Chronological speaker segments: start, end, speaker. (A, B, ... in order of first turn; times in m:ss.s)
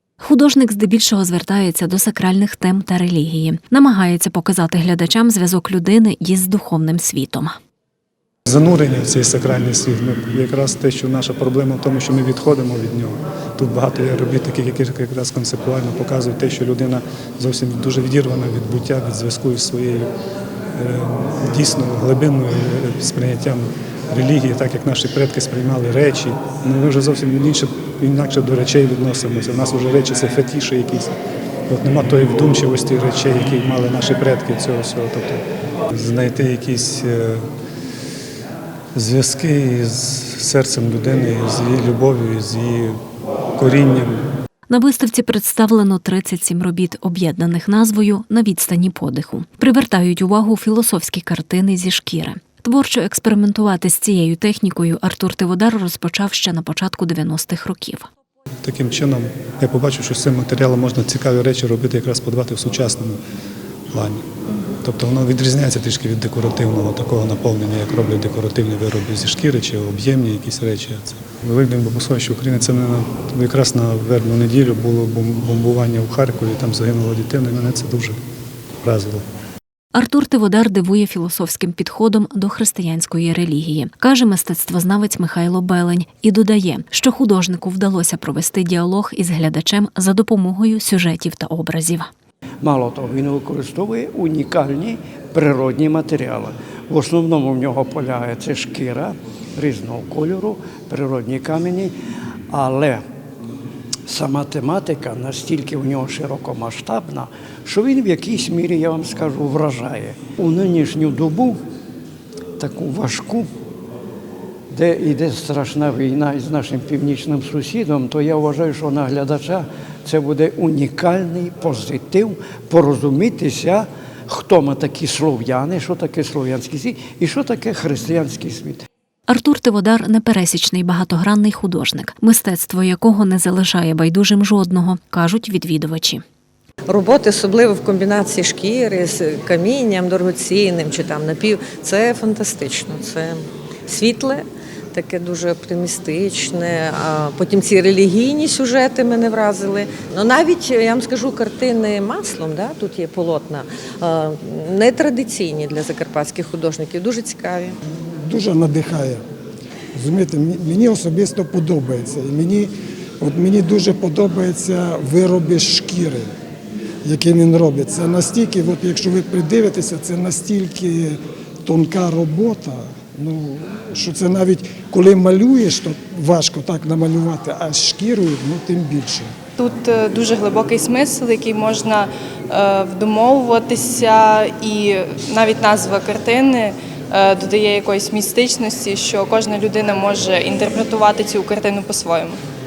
0:00.2-0:07.6 A
0:08.5-0:20.1 B
0:20.7-0:31.1 B
0:31.7-0:37.4 B
0:38.9-0:43.0 B
0:43.6-0:44.2 B
0:44.7-0:58.1 A
0:58.6-1:03.2 B
1:03.9-1:04.2 B
1:04.8-1:18.2 B
1:18.8-1:19.2 B
1:19.9-1:32.1 A
1:32.6-1:41.9 C
1:42.5-1:43.0 C
1:44.1-1:51.6 C
1:52.6-1:53.5 C
1:54.7-2:08.8 C
2:09.3-2:16.2 A
2:16.9-2:37.8 D
2:38.2-2:39.2 E
2:39.9-2:46.3 E
2:47.0-2:59.3 E
2:59.6-3:12.4 F